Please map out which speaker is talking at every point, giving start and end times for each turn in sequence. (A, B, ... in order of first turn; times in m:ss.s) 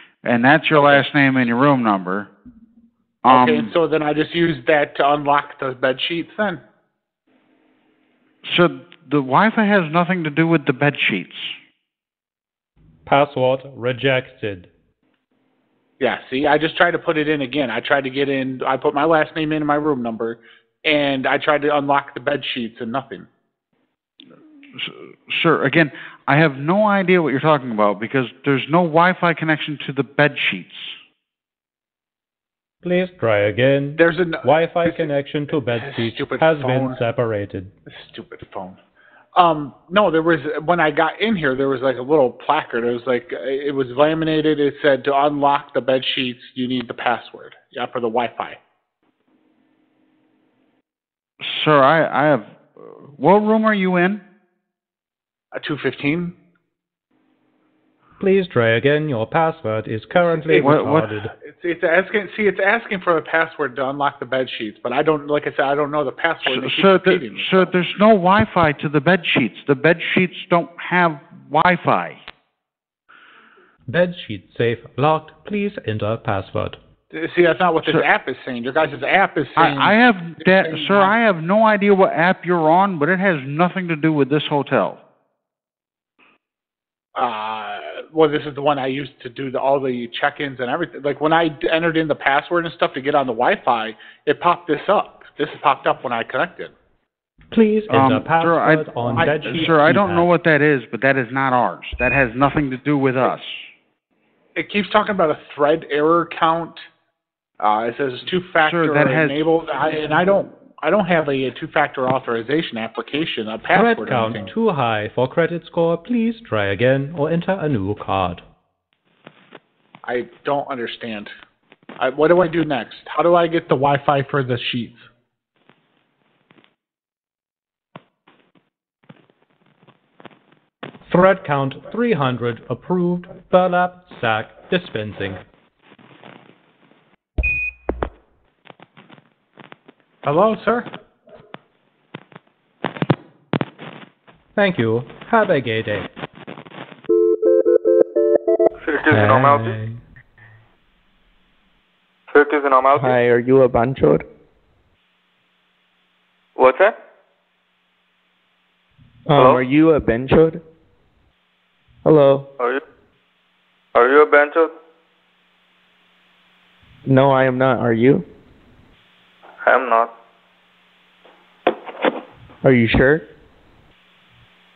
0:00.2-0:02.3 A
0:03.2-0:03.7 A
0:03.3-0:06.6 B
0:08.4-0:11.6 A
0:13.1-0:14.7 C
0:16.0-0:23.3 B
0:24.7-0:31.0 A
0:32.8-0:37.7 C
0:34.0-0:37.0 B
0:37.9-0:38.8 B
0:39.4-0:48.6 B
0:51.4-0:54.2 A
0:55.5-0:56.4 B
0:58.2-1:01.3 C
1:00.5-1:00.8 B
1:00.8-1:01.1 A
1:01.4-1:07.8 B
1:06.4-1:12.2 A
1:13.9-1:16.8 C
1:17.1-1:21.1 B
1:17.8-1:18.1 A
1:19.6-1:25.0 A
1:27.2-1:36.7 B
1:37.5-1:40.3 C
1:37.9-1:43.7 A
1:39.2-1:39.6 B
1:44.6-1:46.9 B
1:47.6-1:54.5 B
1:48.6-1:49.5 A
1:53.7-1:58.4 C
2:00.0-2:01.3 B
2:02.0-2:05.1 B
2:11.1-2:15.4 C
2:20.2-2:20.9 B
2:24.6-2:26.1 C
2:28.8-2:29.7 D
2:29.1-2:30.0 C
2:32.3-2:33.2 D
2:33.0-2:34.2 E
2:36.6-2:37.0 D
2:39.3-2:40.6 E
2:39.4-2:39.6 D
2:42.0-2:42.5 E
2:44.0-2:44.7 D
2:47.1-2:48.2 E
2:49.6-2:50.1 D
2:52.6-2:53.2 E